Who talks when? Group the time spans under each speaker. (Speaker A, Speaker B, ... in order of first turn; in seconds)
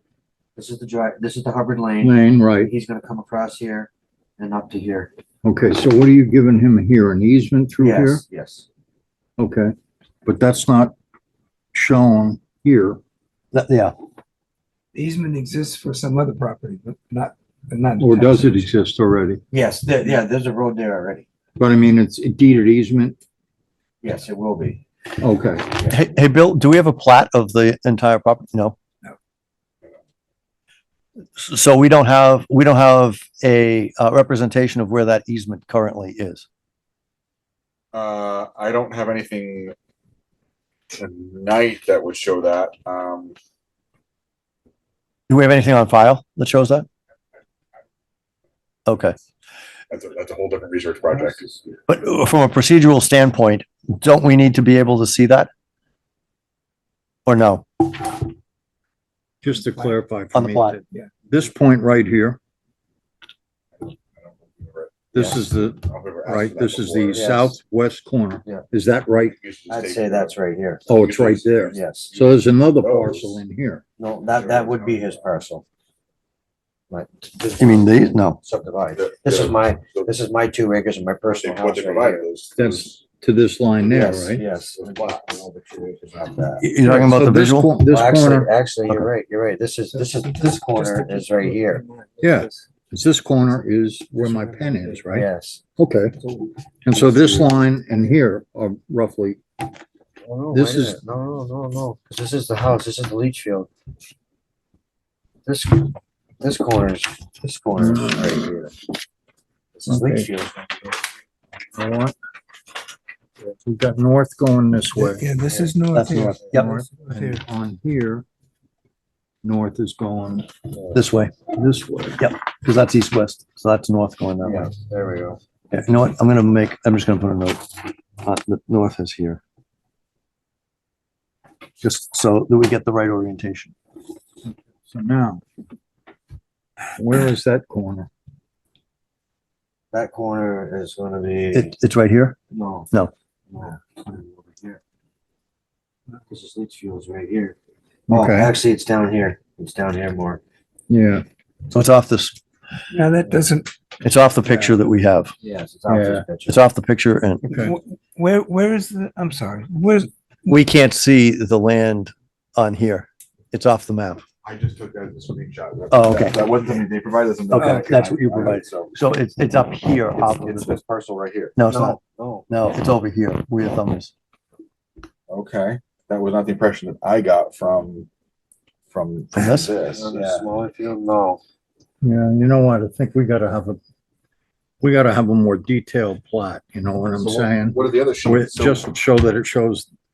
Speaker A: 0.6-5.1, 7.8-8.7, 19.5-21.2, 24.0-24.8, 67.1-67.6, 69.7-70.8, 71.7-72.1, 74.0-75.6, 76.9-82.2, 83.8-86.7, 87.8-91.8, 95.1-95.6, 100.2-103.7, 105.4-108.7, 109.7-110.9, 124.4-125.4, 139.9-141.7, 142.5-142.9, 143.5-144.8, 146.3-147.6, 148.1-150.4, 155.4-156.6, 170.8-172.5, 179.7-181.4
Speaker B: 2.0-2.7, 5.4-8.2, 9.4-9.7, 10.2-10.9, 11.7-13.0, 18.0-19.4, 21.6-23.2, 25.2-25.7, 59.4-62.4, 65.1-69.4, 70.9-73.8, 82.5-84.4, 86.8-88.5, 92.2-96.2, 96.8-99.4, 100.5-101.0, 107.8-108.4, 109.9-110.3, 111.7-112.1, 113.5-115.3, 116.5-118.2, 119.4-120.5, 121.5-122.2, 134.9-135.4, 136.9-138.1, 148.1-148.5, 150.9-151.2, 155.9-156.2, 182.0-183.8, 184.8-189.9
Speaker C: 13.5-13.9, 25.9-28.8, 31.4-36.4, 45.3-46.9, 48.9-49.1, 51.9-55.5, 57.2-58.2, 60.3-60.8, 77.6-78.4, 86.6-87.7, 115.9-116.7, 120.9-121.5, 122.2-124.7, 125.7-127.7, 128.2-129.4, 131.8-133.7, 141.5-142.4, 151.7-152.4, 154.0-155.3, 156.5-157.7, 160.4-164.2, 165.9-166.4, 167.5-170.8, 171.6-172.0, 172.5-174.1, 179.3-179.7
Speaker D: 14.9-18.7, 90.0-92.6, 94.2-94.4, 115.0-117.4, 152.9-153.7, 157.5-160.1
Speaker E: 37.9-39.7, 40.9-43.4, 49.9-51.8, 63.8-67.3, 69.3-70.3, 70.9-73.4, 74.3-75.2, 79.0-80.1, 81.3-82.9, 84.7-85.3, 164.4-168.9, 170.2-171.5, 175.3-178.1, 178.9-180.4, 187.1-188.8